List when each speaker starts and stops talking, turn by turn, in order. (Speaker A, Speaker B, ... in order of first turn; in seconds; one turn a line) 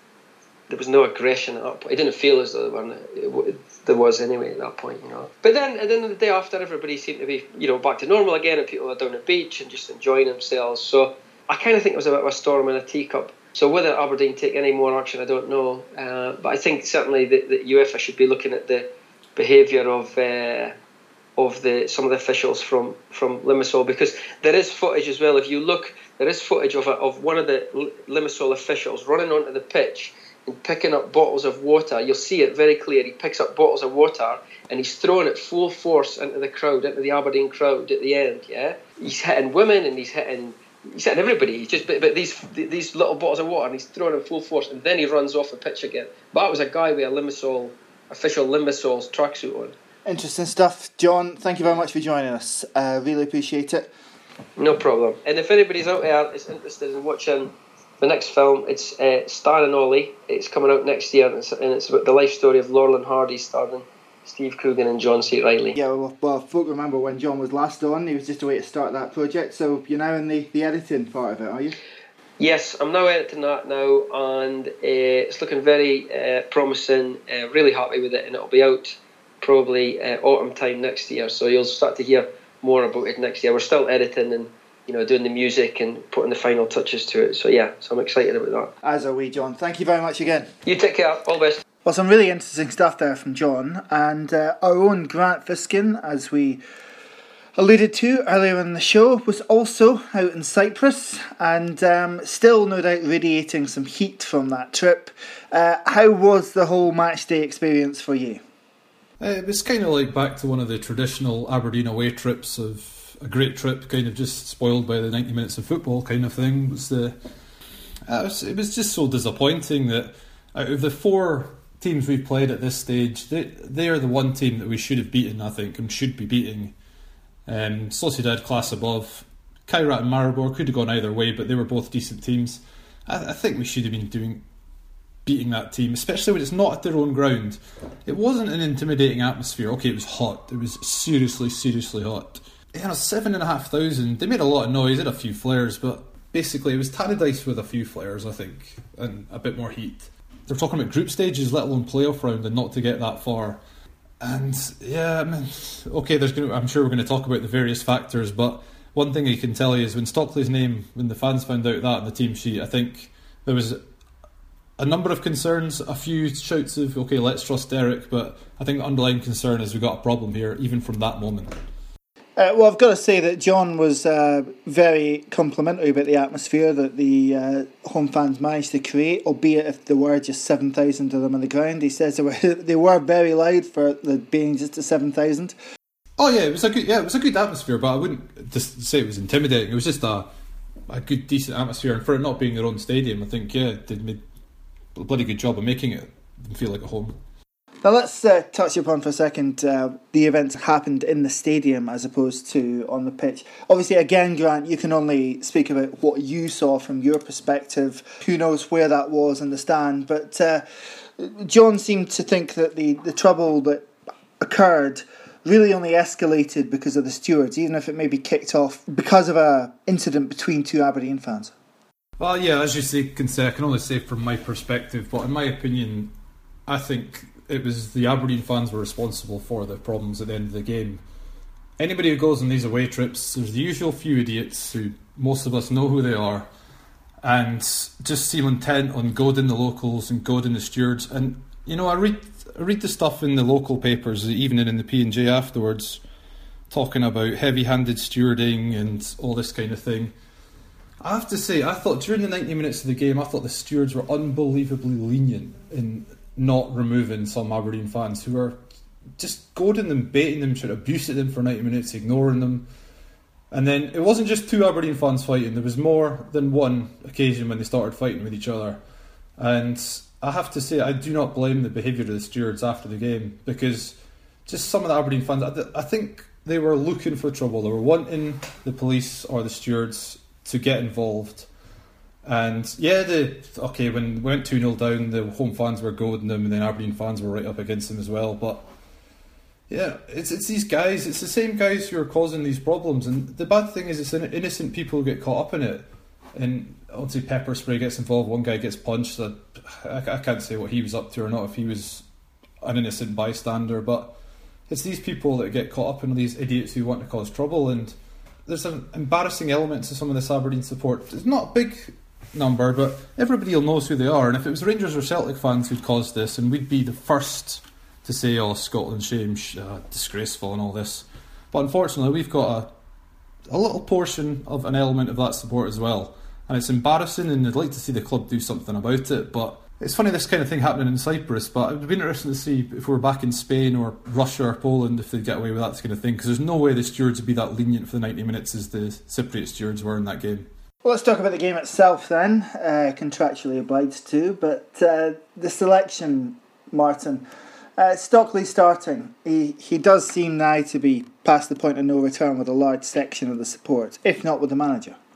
Speaker A: 0.7-20.8
Speaker A: 21.4-49.7
Speaker B: 50.0-53.9
Speaker A: 54.6-65.8
Speaker B: 65.7-71.7
Speaker A: 72.4-88.7
Speaker B: 88.8-90.5
Speaker A: 90.6-91.6
Speaker B: 91.8-96.6
Speaker B: 97.5-108.4
Speaker C: 109.2-117.2
Speaker C: 118.1-126.7
Speaker C: 127.5-134.4
Speaker C: 135.2-153.6
Speaker C: 154.2-163.8
Speaker C: 164.8-171.5
Speaker B: 172.4-185.6
Speaker C: 186.2-190.3
Speaker C: 190.9-194.2
Speaker C: 194.9-197.2
Speaker B: 197.8-210.6
Speaker B: 211.2-213.9
Speaker B: 214.4-221.5
Speaker C: 222.2-226.1
Speaker C: 226.7-231.0
Speaker C: 231.8-236.5
Speaker C: 237.2-246.0
Speaker C: 246.7-250.1
Speaker C: 251.0-258.6
Speaker C: 259.2-262.7
Speaker C: 263.5-268.8
Speaker C: 269.4-281.5
Speaker C: 282.2-288.7
Speaker C: 289.7-302.0
Speaker C: 302.6-304.2
Speaker C: 304.7-322.7
Speaker C: 323.5-340.5
Speaker B: 340.8-347.2
Speaker B: 347.8-355.0